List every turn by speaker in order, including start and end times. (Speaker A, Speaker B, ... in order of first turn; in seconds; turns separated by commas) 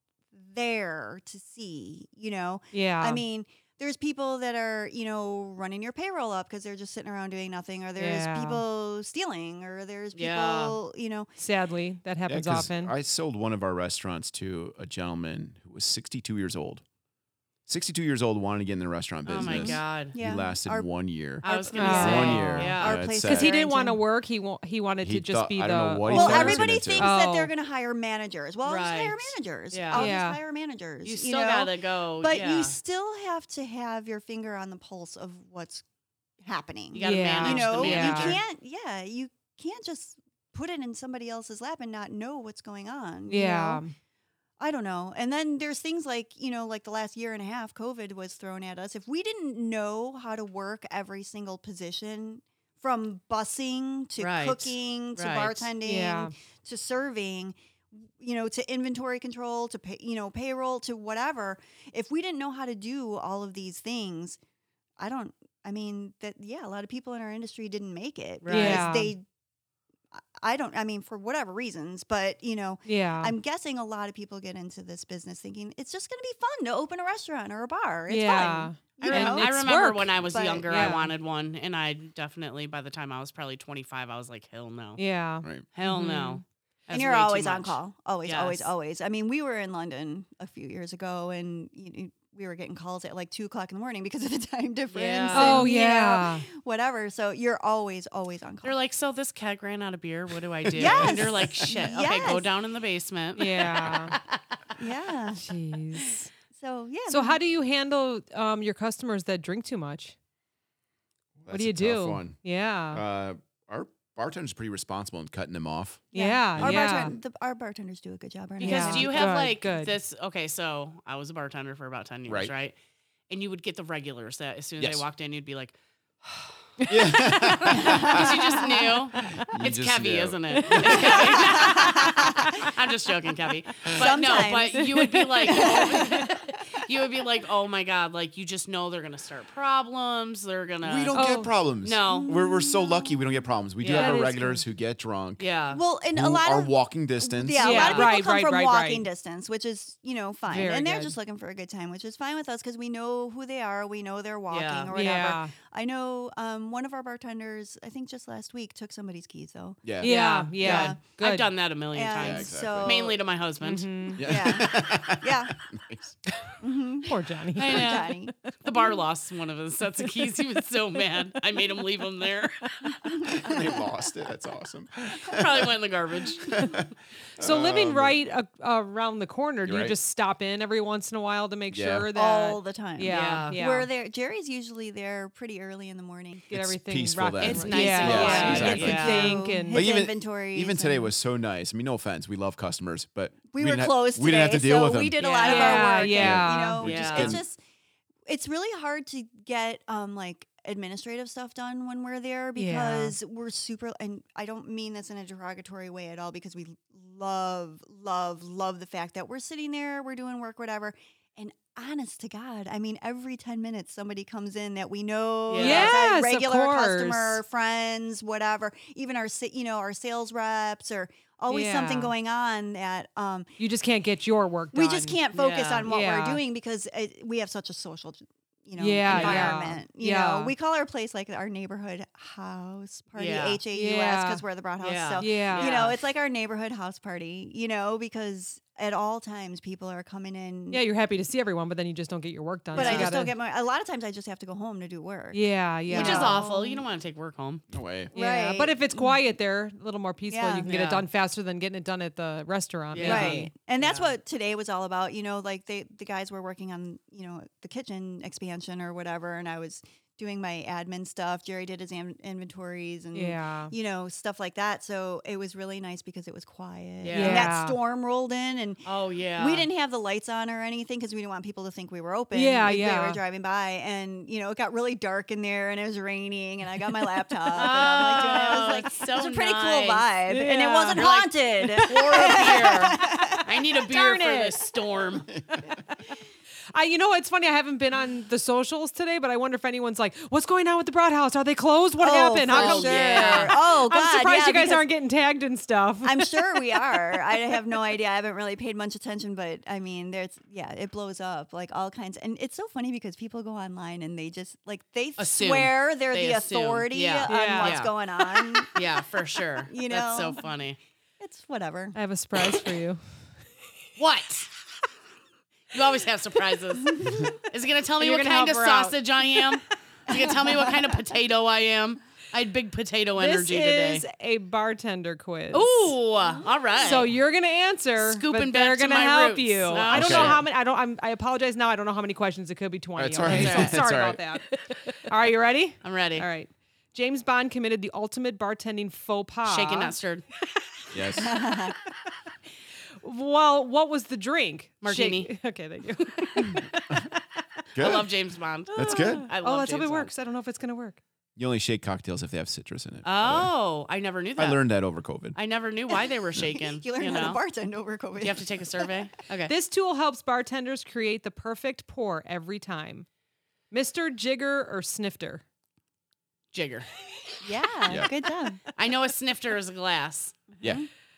Speaker A: 0.3-11.3, Speaker B: 2.7-3.2, Speaker B: 8.0-8.6, Speaker C: 10.1-10.8, Speaker B: 11.4-12.9, Speaker D: 12.3-16.8, Speaker D: 17.7-23.5, Speaker C: 19.3-20.1, Speaker A: 19.4-20.9, Speaker C: 21.4-23.0, Speaker A: 21.4-24.0, Speaker B: 21.8-27.5, Speaker D: 25.0-27.1, Speaker A: 26.1-35.9, Speaker C: 28.6-30.1, Speaker B: 29.9-30.4, Speaker C: 31.0-32.8, Speaker A: 36.4-43.8, Speaker C: 36.9-38.4, Speaker B: 37.0-38.4, Speaker B: 43.3-43.9, Speaker A: 44.6-64.4, Speaker C: 54.2-55.7, Speaker B: 55.8-56.3, Speaker A: 65.0-69.2, Speaker C: 68.4-69.1, Speaker B: 68.5-69.1, Speaker A: 70.4-81.1, Speaker B: 72.9-73.3, Speaker B: 78.1-81.1, Speaker C: 79.0-85.0, Speaker B: 85.0-86.4, Speaker C: 85.7-88.7, Speaker A: 86.9-98.8, Speaker C: 94.9-95.7, Speaker B: 95.3-96.5, Speaker C: 98.6-104.4, Speaker D: 100.6-101.5, Speaker A: 100.8-102.5, Speaker B: 103.4-104.2, Speaker A: 104.8-105.5, Speaker B: 105.4-106.3, Speaker A: 106.5-107.4, Speaker B: 107.1-110.2, Speaker D: 111.4-112.4, Speaker B: 111.5-113.0, Speaker D: 112.9-117.1, Speaker B: 116.1-117.1, Speaker A: 116.1-119.4, Speaker C: 118.6-122.8, Speaker B: 118.6-120.0, Speaker D: 122.3-122.5, Speaker C: 123.3-142.3, Speaker D: 124.8-125.1, Speaker B: 126.8-127.6, Speaker D: 126.9-128.6, Speaker A: 127.9-128.9, Speaker D: 129.2-131.7, Speaker B: 130.6-132.6, Speaker A: 131.2-132.7, Speaker A: 133.9-134.9, Speaker B: 134.7-136.3, Speaker A: 135.4-136.5, Speaker D: 140.8-145.5, Speaker B: 141.1-141.5, Speaker A: 142.1-143.2, Speaker C: 143.8-144.2, Speaker B: 143.9-144.6, Speaker C: 145.4-145.8, Speaker A: 145.7-159.8, Speaker D: 146.1-147.7, Speaker C: 147.6-148.1, Speaker B: 147.6-149.1, Speaker B: 150.5-151.2, Speaker C: 154.5-154.9, Speaker B: 154.9-155.5, Speaker D: 159.8-160.1, Speaker B: 160.0-161.5, Speaker C: 160.0-164.1, Speaker A: 160.6-161.0, Speaker A: 161.9-163.2, Speaker D: 162.2-163.1, Speaker B: 163.6-164.3, Speaker D: 164.2-166.2, Speaker A: 164.2-165.6, Speaker A: 166.6-168.3, Speaker B: 167.0-168.1, Speaker C: 167.6-173.3, Speaker A: 173.1-173.8, Speaker D: 173.3-175.8, Speaker C: 175.2-176.9, Speaker D: 176.5-178.2, Speaker B: 177.4-183.9, Speaker D: 179.7-179.9, Speaker D: 181.7-182.1, Speaker A: 182.1-186.5, Speaker C: 183.1-183.6, Speaker B: 186.5-189.8, Speaker D: 186.5-195.2, Speaker C: 187.4-189.4, Speaker A: 187.8-191.1, Speaker A: 193.5-197.6, Speaker B: 195.2-196.9, Speaker C: 195.3-195.7, Speaker D: 195.8-197.4, Speaker C: 196.8-197.4, Speaker A: 198.3-223.5, Speaker B: 202.6-203.2, Speaker C: 215.5-216.0, Speaker B: 215.6-217.4, Speaker B: 221.5-222.1, Speaker B: 223.6-225.2, Speaker A: 224.7-240.8, Speaker C: 225.3-225.9, Speaker B: 225.9-226.4, Speaker B: 228.8-230.5, Speaker C: 229.1-229.6, Speaker C: 233.2-233.6, Speaker B: 233.7-234.4, Speaker C: 234.8-236.0, Speaker B: 235.2-235.9, Speaker B: 240.7-243.3, Speaker C: 242.7-243.1, Speaker A: 242.7-246.8, Speaker B: 245.3-246.4, Speaker C: 245.9-247.6, Speaker D: 247.7-248.1, Speaker A: 248.1-249.2, Speaker B: 248.1-253.5, Speaker A: 250.3-250.7, Speaker C: 250.7-251.1, Speaker C: 252.9-254.1, Speaker A: 253.0-283.5, Speaker B: 263.1-263.7, Speaker C: 267.0-267.5, Speaker B: 267.1-267.8, Speaker C: 268.9-269.7, Speaker B: 272.3-273.2, Speaker C: 277.5-280.1, Speaker B: 280.3-281.1, Speaker C: 280.9-285.3, Speaker B: 281.6-282.5, Speaker B: 283.8-284.7, Speaker B: 286.7-297.4, Speaker A: 292.0-294.9, Speaker C: 292.5-293.6, Speaker A: 296.0-308.8, Speaker C: 305.2-310.8, Speaker B: 307.3-307.8, Speaker A: 309.7-310.5, Speaker A: 311.2-312.0, Speaker B: 311.9-313.0, Speaker C: 314.0-314.5, Speaker C: 315.7-324.0, Speaker B: 318.0-319.6, Speaker B: 323.2-325.9, Speaker C: 325.5-327.1, Speaker B: 326.8-339.9, Speaker C: 328.0-330.4, Speaker D: 329.9-330.4, Speaker D: 333.0-334.2, Speaker C: 333.2-333.9, Speaker C: 335.8-336.3, Speaker C: 339.5-340.2, Speaker D: 340.9-341.4, Speaker A: 341.2-341.8, Speaker B: 343.0-347.2, Speaker C: 344.8-345.3, Speaker D: 347.8-348.1, Speaker C: 347.8-350.1, Speaker D: 348.7-349.3, Speaker B: 348.8-351.0, Speaker D: 351.4-353.5, Speaker C: 353.0-354.7, Speaker D: 354.4-355.4, Speaker C: 355.4-357.4, Speaker A: 356.4-359.0, Speaker C: 358.2-359.5, Speaker B: 359.5-363.1, Speaker B: 363.7-365.4, Speaker C: 366.5-366.9, Speaker A: 367.4-368.6, Speaker C: 368.8-370.6, Speaker A: 370.6-370.9, Speaker D: 370.6-370.9